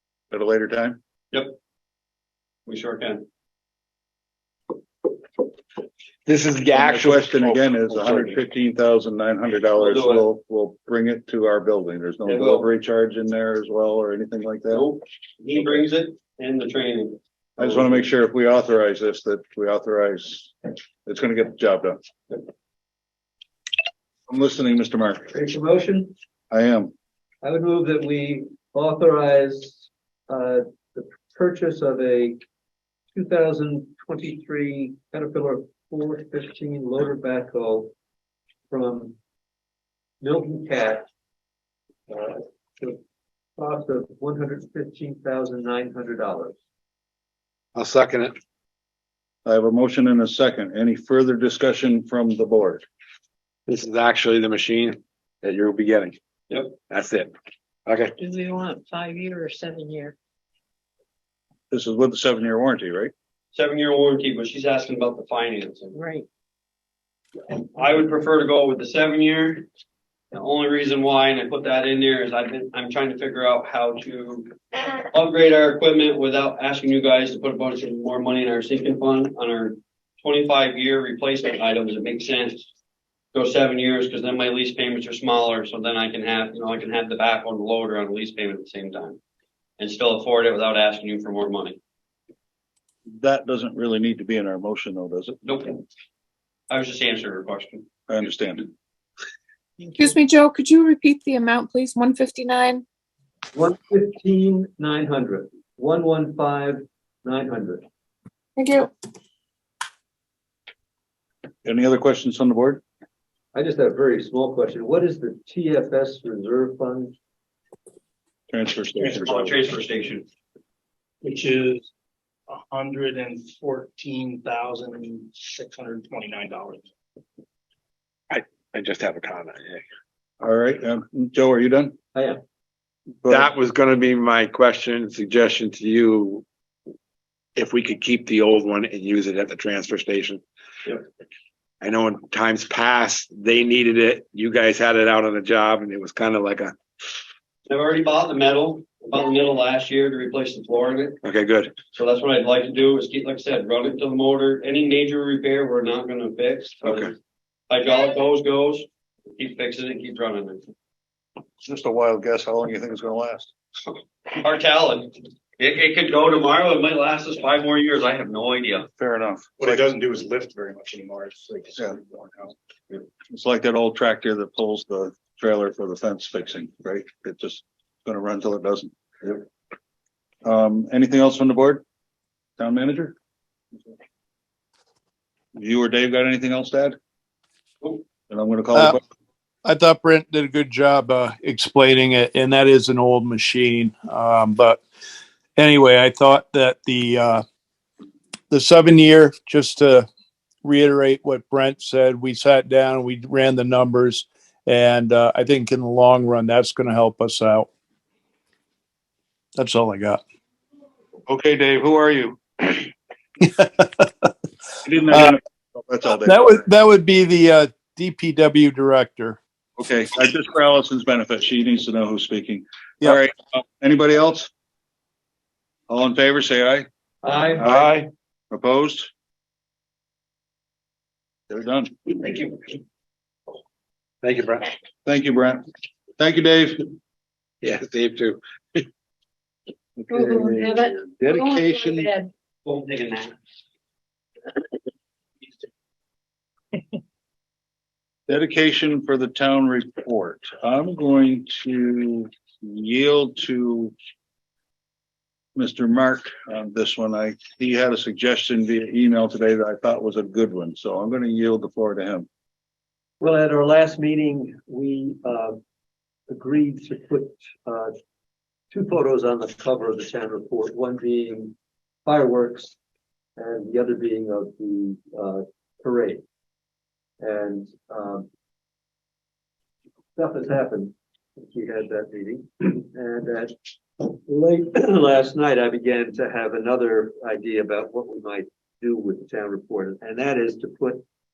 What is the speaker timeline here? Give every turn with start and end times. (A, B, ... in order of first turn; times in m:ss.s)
0:00.3-0:01.0 A
0:02.6-0:03.2 B
0:06.2-0:08.4 C
0:06.7-0:14.8 A
0:09.8-0:10.2 B
0:12.2-0:12.7 B
0:14.7-0:17.7 B
0:17.6-0:22.0 A
0:24.3-0:25.3 A
0:25.3-0:26.1 D
0:26.5-0:26.9 A
0:27.4-0:32.4 D
0:33.1-0:37.9 D
0:38.7-0:39.1 D
0:40.2-0:41.0 D
0:42.1-0:43.0 D
0:43.6-0:46.5 D
0:47.7-0:48.3 C
0:49.4-0:52.8 A
0:53.7-0:56.2 C
0:56.5-0:56.7 B
0:56.9-0:57.3 C
0:57.9-0:58.1 C
0:58.2-1:00.1 E
1:01.7-1:03.1 A
1:03.5-1:05.9 B
1:05.9-1:06.3 E
1:07.5-1:09.7 B
1:10.3-1:22.7 B
1:23.3-1:29.2 B
1:29.8-1:31.8 B
1:33.1-1:35.4 A
1:35.4-1:35.8 B
1:36.7-1:37.8 B
1:38.1-1:38.7 A
1:40.3-1:42.7 F
1:43.5-1:47.8 D
1:48.6-1:48.9 G
1:51.6-1:52.8 A
1:53.5-1:57.1 D
1:58.5-1:59.5 A
1:59.0-2:00.2 B
2:01.2-2:01.9 H
2:02.5-2:06.8 H
2:08.3-2:09.8 C
2:10.4-2:11.9 A
2:13.2-2:13.5 A
2:13.3-2:16.4 C
2:17.6-2:20.4 C
2:21.8-2:26.7 C
2:27.6-2:31.2 B
2:31.2-2:31.7 C
2:31.9-2:37.1 B
2:36.8-2:37.1 C
2:37.7-2:40.6 B
2:41.6-2:43.5 A
2:44.3-2:48.9 B
2:49.0-2:49.8 A
2:49.6-2:52.5 H
2:53.3-2:59.4 A
3:00.4-3:01.8 A
3:02.6-3:03.2 A
3:05.6-3:07.0 A
3:08.3-3:09.0 A
3:09.6-3:14.8 G
3:15.6-3:17.4 G
3:18.5-3:20.1 G
3:20.6-3:27.7 G
3:29.6-3:30.2 G
3:31.3-3:32.9 A
3:34.8-3:36.7 A
3:35.1-3:35.4 G
3:36.1-3:39.4 G
3:39.8-3:44.5 A
3:45.9-3:46.9 A
3:47.2-3:47.7 D
3:47.5-3:48.0 A
3:47.6-3:48.1 C
3:48.5-3:49.1 A
3:51.5-3:52.4 A
3:54.2-3:54.7 C
3:55.0-3:55.6 A
3:56.2-3:56.9 A
3:57.6-3:58.8 C
4:00.0-4:02.1 A
4:00.6-4:00.8 E
4:02.6-4:03.3 B
4:08.3-4:13.9 A
4:15.6-4:22.3 A
4:23.2-4:25.6 D
4:26.3-4:27.9 D
4:28.7-4:31.5 D
4:32.0-4:32.8 D
4:33.4-4:36.2 D
4:37.2-4:38.2 D
4:40.2-4:51.0 D